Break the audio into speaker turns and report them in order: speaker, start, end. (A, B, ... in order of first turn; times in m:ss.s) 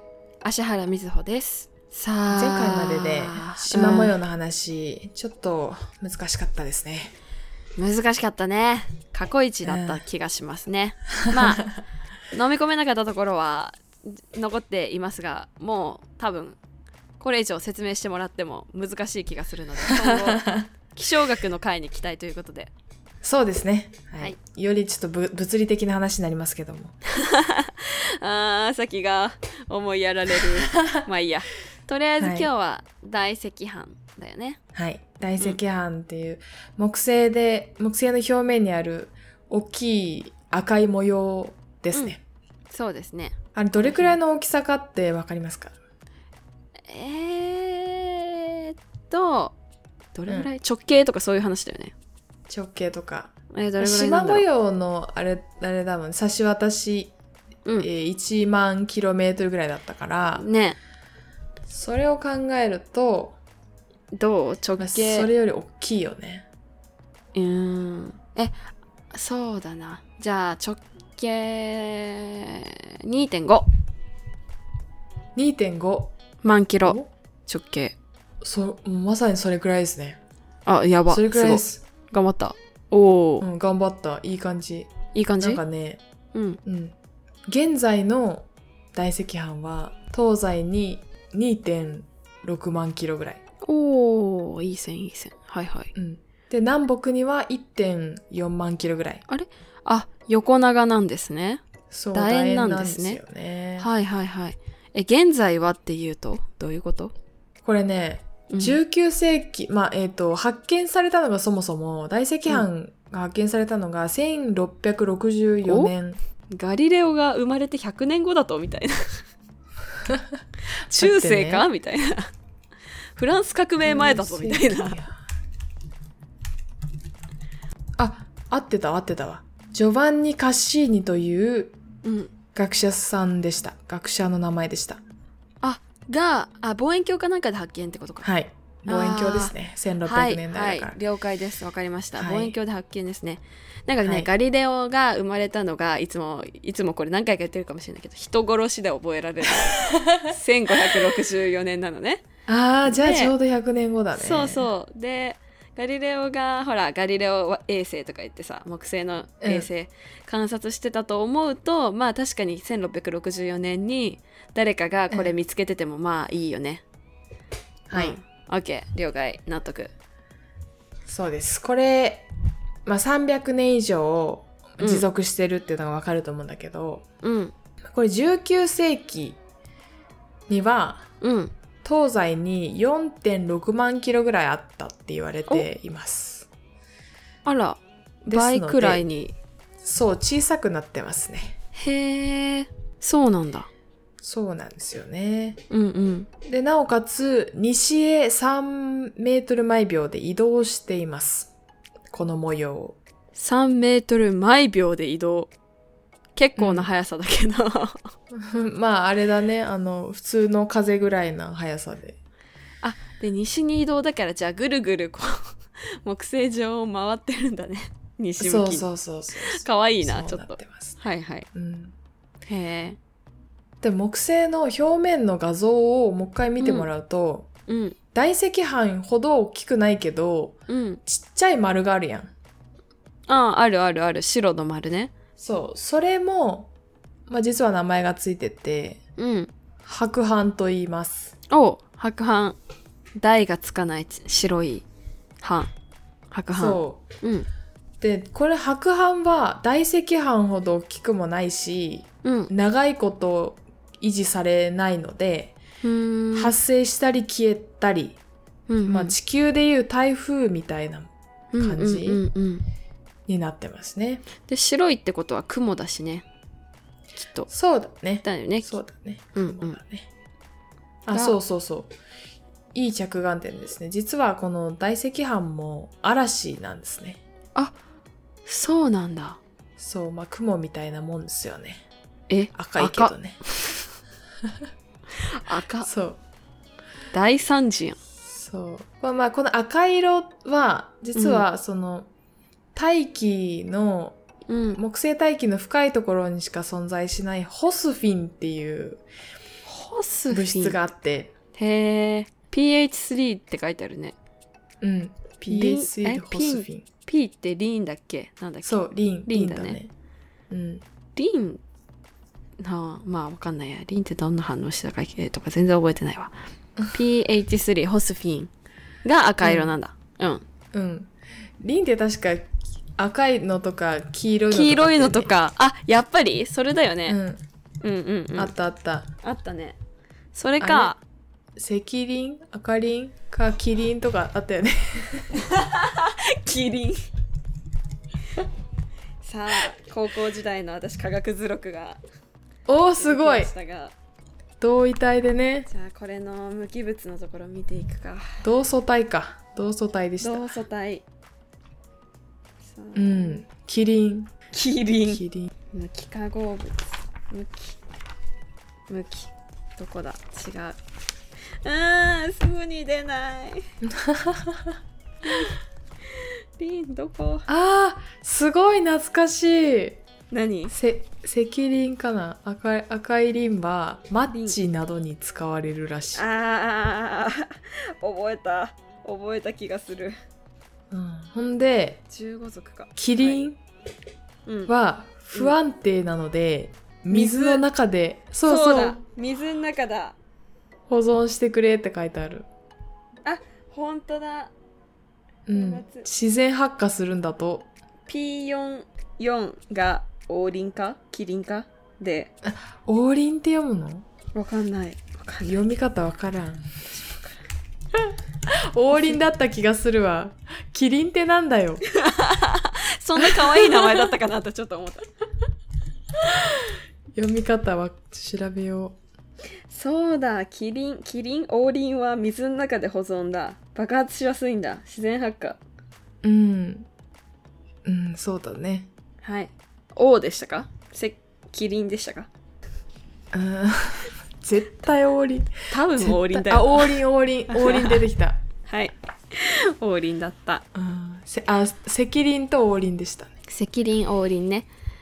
0:00.4-0:04.2 A
0:02.3-0:07.1 B
0:07.8-0:11.7 A
0:09.6-0:10.0 B
0:11.2-0:11.8 B
0:12.3-0:16.6 A
0:17.2-0:22.7 A
0:20.0-0:20.7 B
0:23.2-0:27.0 B
0:27.1-0:34.6 A
0:32.2-0:32.5 B
0:34.8-0:42.2 B
0:42.7-0:44.2 A
0:43.6-0:45.8 B
0:46.9-0:49.6 A
0:50.1-0:51.9 A
0:52.5-0:57.1 B
0:53.5-0:54.4 A
0:57.8-1:00.5 B
1:00.4-1:00.8 A
1:01.7-1:03.4 B
1:04.1-1:05.3 A
1:04.8-1:06.5 B
1:07.3-1:08.6 A
1:09.1-1:13.7 A
1:15.3-1:16.1 B
1:16.4-1:18.0 A
1:16.8-1:17.1 B
1:18.4-1:20.2 B
1:20.7-1:23.4 A
1:21.1-1:21.8 B
1:23.4-1:26.0 B
1:25.1-1:25.6 A
1:26.3-1:26.6 A
1:26.6-1:27.0 B
1:27.5-1:33.4 B
1:33.6-1:35.9 A
1:36.0-1:39.2 B
1:39.3-1:43.2 A
1:41.9-1:43.9 B
1:43.8-1:47.1 A
1:47.6-1:56.2 B
1:48.5-1:48.8 A
1:55.7-1:55.9 A
1:56.5-1:59.2 A
2:00.9-2:02.3 A
2:00.9-2:01.7 B
2:03.2-2:05.0 A
2:03.8-2:05.2 B
2:08.0-2:11.8 B
2:12.0-2:12.3 A
2:12.5-2:15.0 B
2:15.6-2:18.3 A
2:18.2-2:21.0 B
2:18.8-2:32.2 A
2:22.2-2:22.6 B
2:29.5-2:31.1 B
2:32.5-2:34.7 B
2:32.8-2:33.3 A
2:34.1-2:46.8 A
2:39.4-2:39.7 B
2:47.9-2:48.2 B
2:47.9-2:49.9 A
2:51.1-2:52.3 B
2:52.8-2:57.0 B
2:54.8-2:55.1 A
2:57.2-2:57.5 A
2:57.9-2:59.4 B
3:00.5-3:01.1 B
3:01.2-3:01.5 A
3:01.8-3:06.5 B
3:07.5-3:09.3 A
3:08.3-3:09.1 B
3:09.8-3:11.6 B
3:11.7-3:13.7 A
3:14.2-3:15.6 B
3:15.7-3:16.3 A
3:16.5-3:21.5 B
3:22.1-3:23.0 B
3:23.3-3:25.5 A
3:26.4-3:28.1 A
3:26.6-3:26.9 B
3:28.3-3:32.2 B
3:32.8-3:38.8 A
3:38.4-3:41.0 B
3:39.5-3:41.5 A
3:41.5-3:41.9 B
3:42.5-3:43.0 A
3:43.8-3:47.5 B
3:46.6-3:46.9 A
3:47.7-3:48.0 A
3:48.1-3:52.3 B
3:50.7-3:51.0 A
3:53.3-3:55.1 A
3:55.4-3:56.7 B
3:57.3-3:59.0 B
3:59.2-3:59.5 A
3:59.8-4:01.3 B
4:01.5-4:02.6 A
4:03.2-4:04.8 A
4:05.4-4:05.7 A
4:06.3-4:07.5 A
4:06.5-4:07.0 B
4:08.0-4:15.6 B
4:12.2-4:12.5 A
4:15.8-4:16.5 A
4:16.3-4:18.2 B
4:18.7-4:19.1 A
4:18.9-4:22.2 B
4:21.5-4:22.6 A
4:23.3-4:24.2 B
4:24.4-4:26.2 A
4:27.5-4:30.1 B
4:28.2-4:28.8 A
4:29.3-4:29.8 A
4:31.0-4:31.9 B
4:31.1-4:31.4 A
4:32.7-4:37.2 B
4:38.4-4:39.4 A
4:39.8-4:41.8 B
4:42.3-4:43.8 A
4:42.5-4:43.4 B
4:45.3-4:45.9 A
4:45.8-4:46.2 B
4:47.1-4:48.0 A
4:48.3-4:52.1 B
4:51.1-4:51.4 A
4:52.7-4:54.2 B
4:54.5-4:54.8 A
4:54.8-4:59.0 B
4:59.6-5:00.8 A
5:00.3-5:01.3 B
5:01.5-5:04.1 A
5:04.8-5:06.8 B
5:05.4-5:09.8 A
5:08.6-5:09.9 B
5:10.5-5:10.8 B
5:11.2-5:11.6 A
5:12.6-5:16.3 A
5:16.9-5:18.5 A
5:19.0-5:20.4 A
5:19.4-5:19.7 B
5:20.7-5:25.3 B
5:24.5-5:27.2 A
5:27.1-5:27.4 B
5:27.8-5:28.5 A
5:28.4-5:29.1 B
5:29.2-5:29.8 A
5:30.3-5:31.0 A
5:30.6-5:30.9 B
5:31.6-5:35.4 B
5:35.4-5:37.0 A
5:39.2-5:42.0 A
5:42.7-5:43.5 B
5:43.0-5:43.9 A
5:44.6-5:45.7 B
5:45.7-5:48.4 A
5:48.4-5:50.6 B
5:50.2-5:51.0 A
5:52.6-5:53.4 A
5:52.9-5:54.3 B
5:54.5-5:57.8 A
5:55.1-5:55.5 B
5:58.9-6:00.8 A
6:01.6-6:03.7 A
6:03.8-6:04.8 B
6:05.2-6:05.6 A
6:06.1-6:07.5 A
6:07.5-6:10.0 B
6:10.3-6:10.7 A
6:10.7-6:16.2 B
6:14.3-6:14.6 A
6:16.1-6:20.2 A
6:20.9-6:22.0 B
6:22.1-6:23.4 A
6:23.0-6:23.6 B
6:24.4-6:24.7 A
6:24.7-6:29.0 B
6:27.1-6:27.6 A
6:28.4-6:30.2 A
6:30.9-6:32.5 B
6:33.2-6:34.5 A
6:35.5-6:37.7 B
6:35.5-6:36.1 A
6:38.1-6:42.3 A
6:42.4-6:44.0 B
6:44.3-6:45.6 A
6:45.4-6:46.6 B
6:48.5-6:51.8 B
6:51.9-6:55.1 A
6:53.2-6:54.1 B
6:57.2-6:59.0 B
6:59.7-7:05.6 A
7:06.2-7:06.9 B
7:07.8-7:08.9 B
7:09.2-7:12.3 A
7:13.3-7:18.4 B
7:15.7-7:18.0 A
7:18.7-7:20.6 A
7:20.7-7:23.3 B
7:23.5-7:24.7 A